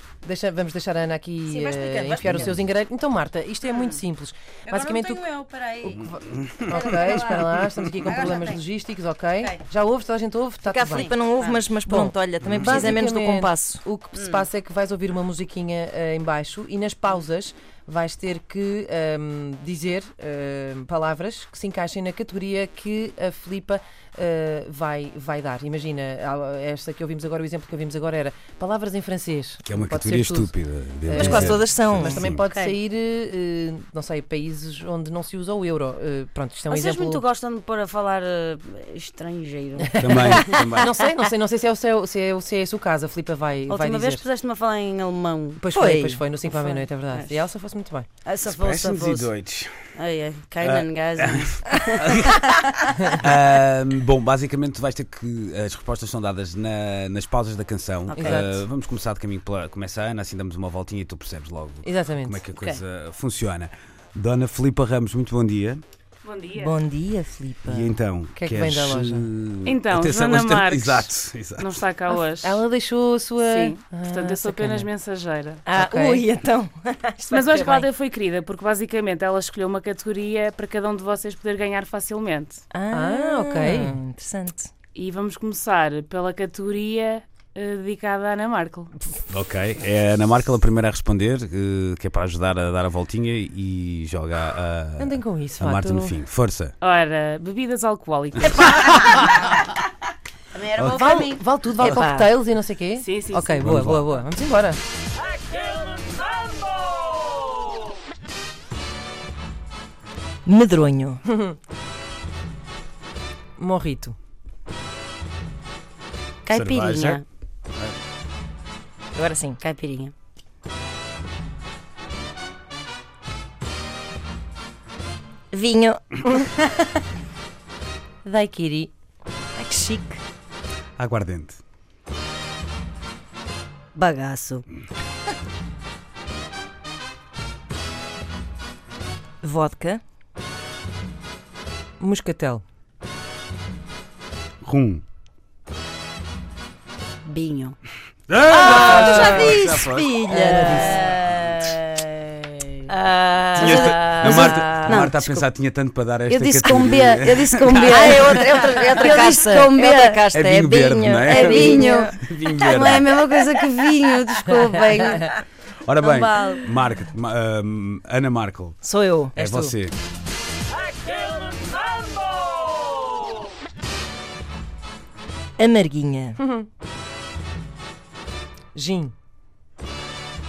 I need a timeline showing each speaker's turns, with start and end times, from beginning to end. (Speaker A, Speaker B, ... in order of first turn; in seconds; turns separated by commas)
Speaker A: 0.2-5.3, Speaker B: 1.5-2.5, Speaker C: 3.6-4.0, Speaker C: 4.7-6.1, Speaker A: 5.9-11.2, Speaker D: 6.5-6.8, Speaker C: 6.7-8.6, Speaker B: 10.6-13.8, Speaker C: 10.9-11.8, Speaker A: 11.9-30.6, Speaker D: 12.5-12.8, Speaker C: 14.1-14.4, Speaker D: 29.7-32.4, Speaker A: 31.1-37.2, Speaker B: 31.1-32.2, Speaker C: 32.5-32.8, Speaker C: 36.7-40.8, Speaker A: 39.8-44.2, Speaker D: 40.0-40.9, Speaker C: 43.7-45.6, Speaker A: 45.6-48.1, Speaker B: 45.7-46.9, Speaker C: 48.2-49.3, Speaker D: 48.5-49.9, Speaker C: 50.0-53.1, Speaker D: 50.6-52.7, Speaker D: 53.2-65.8, Speaker C: 58.1-58.5, Speaker A: 58.1-58.6, Speaker A: 61.8-62.5, Speaker C: 62.5-62.8, Speaker E: 66.2-66.8, Speaker B: 66.6-68.0, Speaker D: 67.7-71.8, Speaker A: 68.3-69.3, Speaker E: 69.7-72.6, Speaker A: 72.1-74.9, Speaker E: 73.4-75.6, Speaker B: 75.7-77.9, Speaker A: 75.7-76.2, Speaker E: 77.3-82.6, Speaker B: 82.7-84.7, Speaker A: 82.9-84.0, Speaker E: 85.0-88.9, Speaker D: 89.3-96.8, Speaker A: 95.0-96.2, Speaker E: 96.8-99.1, Speaker C: 100.5-101.4, Speaker D: 100.8-101.1, Speaker A: 100.9-104.8, Speaker B: 101.8-102.3, Speaker E: 103.0-103.6, Speaker D: 103.6-104.1, Speaker B: 110.5-111.2, Speaker A: 111.3-111.6, Speaker A: 113.6-114.2, Speaker C: 116.5-117.2, Speaker D: 116.5-117.2, Speaker B: 119.2-119.6, Speaker C: 119.6-120.1, Speaker B: 125.5-126.5, Speaker A: 128.2-128.9, Speaker B: 129.6-130.2, Speaker D: 131.0-131.6, Speaker C: 134.0-134.7, Speaker B: 139.4-140.0, Speaker A: 142.0-142.6, Speaker D: 144.6-145.0, Speaker B: 147.3-147.7, Speaker C: 147.3-147.7, Speaker D: 148.3-150.1, Speaker B: 148.5-151.1, Speaker A: 149.0-149.5, Speaker A: 150.3-151.0, Speaker C: 150.8-152.7, Speaker B: 152.9-155.5, Speaker C: 153.6-155.1, Speaker D: 153.6-158.4, Speaker C: 156.3-160.3, Speaker B: 157.4-162.2, Speaker D: 160.3-163.2, Speaker C: 161.2-165.4, Speaker D: 165.8-168.8, Speaker C: 166.0-166.7, Speaker B: 168.8-169.4, Speaker A: 169.4-169.8, Speaker D: 169.4-169.9, Speaker B: 175.6-176.4, Speaker A: 176.4-176.7, Speaker A: 178.8-179.1